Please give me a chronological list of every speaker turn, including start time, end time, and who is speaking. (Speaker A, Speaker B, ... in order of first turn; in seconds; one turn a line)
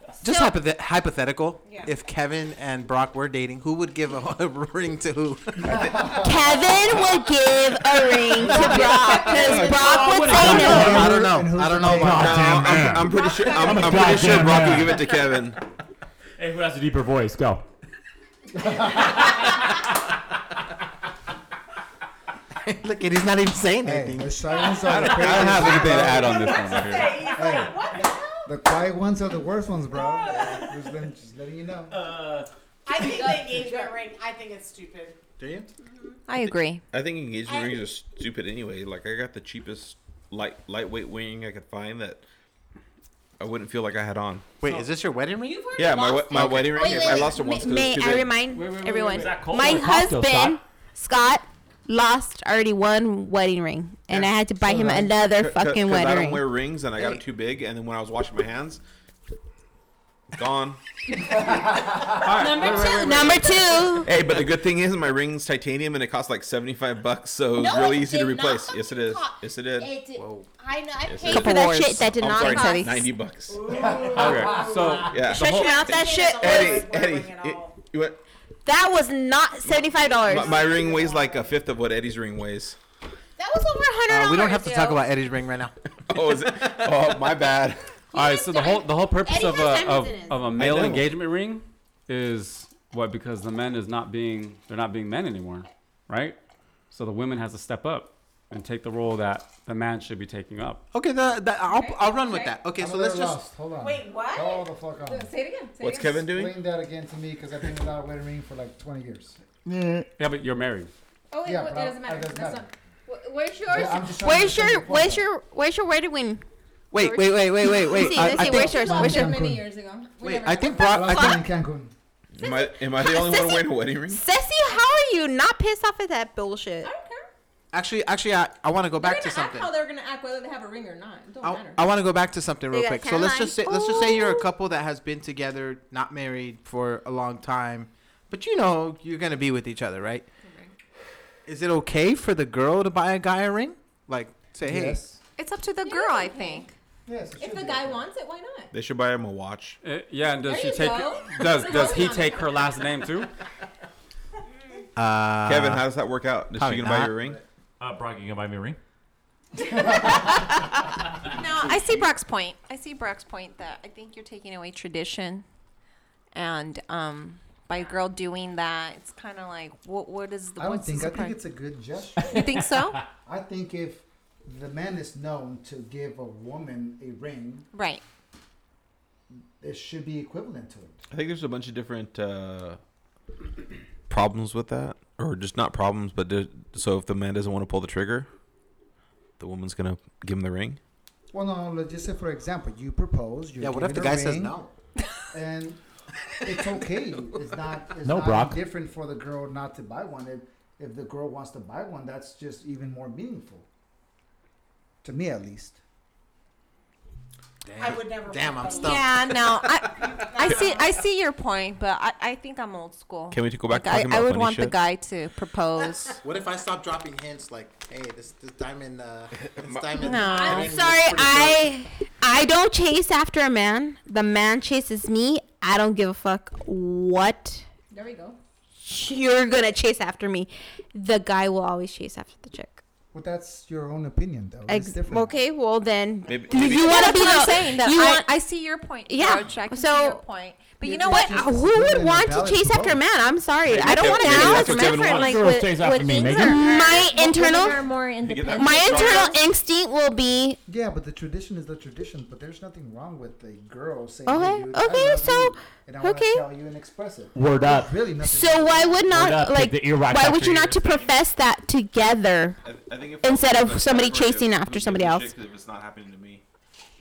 Speaker A: 0.2-6.2
Speaker B: 0.2-0.6
Speaker C: 5.7-6.3
Speaker B: 6.1-11.0
Speaker A: 8.4-9.0
Speaker D: 8.7-10.2
Speaker E: 9.1-10.2
Speaker F: 9.3-15.0
Speaker C: 10.3-12.5
Speaker A: 10.4-12.4
Speaker E: 12.1-15.6
Speaker D: 13.0-15.1
Speaker F: 16.4-17.6
Speaker A: 22.6-26.1
Speaker C: 23.8-26.4
Speaker E: 24.8-27.1
Speaker G: 25.8-27.3
Speaker H: 26.2-28.5
Speaker F: 27.0-27.7
Speaker C: 27.3-27.8
Speaker C: 28.4-31.9
Speaker F: 30.0-30.8
Speaker F: 31.9-32.5
Speaker H: 32.8-35.2
Speaker B: 33.2-33.8
Speaker A: 35.4-35.7
Speaker I: 36.3-36.8
Speaker E: 36.5-42.2
Speaker H: 37.5-37.9
Speaker E: 43.4-44.5
Speaker A: 44.6-47.3
Speaker D: 45.4-46.5
Speaker E: 45.8-48.4
Speaker B: 46.6-56.5
Speaker G: 48.5-49.6
Speaker F: 48.8-50.6
Speaker C: 54.6-55.1
Speaker E: 55.2-58.8
Speaker A: 57.0-57.2
Speaker E: 60.3-61.3
Speaker E: 62.2-63.1
Speaker B: 62.2-64.1
Speaker D: 62.4-63.1
Speaker E: 64.0-70.0
Speaker B: 67.5-73.1
Speaker A: 70.2-70.5
Speaker E: 71.0-78.2
Speaker I: 71.3-73.0
Speaker H: 73.5-77.8
Speaker C: 73.7-75.1
Speaker G: 74.1-75.7
Speaker B: 75.1-76.8
Speaker B: 78.7-80.9
Speaker E: 79.7-82.8
Speaker H: 80.5-81.4
Speaker B: 83.4-85.0
Speaker A: 84.1-85.7
Speaker E: 86.1-87.8
Speaker A: 86.4-86.9
Speaker B: 88.1-90.5
Speaker G: 88.1-96.4
Speaker E: 90.5-91.1
Speaker A: 90.6-91.0
Speaker G: 96.9-100.8
Speaker A: 100.9-103.4
Speaker D: 101.7-102.6
Speaker C: 102.8-105.3
Speaker H: 103.8-104.6
Speaker D: 105.0-106.3
Speaker E: 105.8-106.6
Speaker C: 106.2-109.4
Speaker G: 110.2-110.9
Speaker D: 111.3-114.1
Speaker C: 111.4-112.7
Speaker C: 113.7-115.3
Speaker B: 113.7-116.4
Speaker A: 116.9-118.8
Speaker B: 116.9-119.4
Speaker D: 117.8-121.2
Speaker C: 118.7-119.7
Speaker A: 120.2-121.4
Speaker C: 120.8-121.9
Speaker B: 121.2-121.4
Speaker E: 122.4-124.2
Speaker B: 122.4-126.9
Speaker D: 126.8-127.2
Speaker A: 127.7-129.7
Speaker D: 128.9-131.9
Speaker A: 131.4-140.2
Speaker B: 132.7-134.4
Speaker D: 140.4-140.7
Speaker A: 141.4-145.0
Speaker C: 144.6-145.2
Speaker I: 145.4-146.7
Speaker D: 145.8-146.7
Speaker C: 147.1-148.1
Speaker D: 147.4-148.7
Speaker E: 148.7-149.8
Speaker G: 149.8-153.3
Speaker D: 150.4-152.7
Speaker A: 154.9-155.9
Speaker E: 155.4-157.4
Speaker A: 156.5-157.4
Speaker F: 157.8-158.8
Speaker I: 161.3-165.4
Speaker I: 166.3-171.4
Speaker C: 170.6-172.6
Speaker I: 172.2-173.0
Speaker F: 172.2-173.0
Speaker C: 173.2-177.7
Speaker I: 177.7-178.0
Speaker C: 179.6-181.0
Speaker E: 181.1-182.8
Speaker E: 184.1-188.3
Speaker E: 189.4-190.8
Speaker C: 191.3-194.6
Speaker A: 193.6-194.7
Speaker C: 195.3-195.8
Speaker C: 196.4-203.7
Speaker F: 198.0-198.6
Speaker C: 205.0-205.8
Speaker A: 207.6-210.2
Speaker H: 207.8-209.1
Speaker I: 208.6-216.2
Speaker H: 209.9-210.9
Speaker E: 213.3-214.7
Speaker A: 216.2-221.7
Speaker E: 219.6-220.1
Speaker I: 220.0-220.7
Speaker B: 220.2-227.6
Speaker D: 227.9-228.4
Speaker B: 228.8-232.8
Speaker C: 233.1-235.4
Speaker B: 234.7-238.2
Speaker E: 236.2-237.4
Speaker I: 236.6-241.5
Speaker B: 239.1-240.2
Speaker B: 240.8-247.8
Speaker C: 240.9-243.0
Speaker E: 243.6-245.5
Speaker I: 244.0-245.3
Speaker F: 244.9-246.8
Speaker I: 246.1-249.4
Speaker E: 248.2-249.4
Speaker B: 248.5-250.6
Speaker C: 250.7-259.0
Speaker B: 254.2-256.5
Speaker F: 257.3-257.9
Speaker B: 258.2-262.6
Speaker F: 259.1-261.1
Speaker E: 262.6-266.4
Speaker B: 263.2-265.3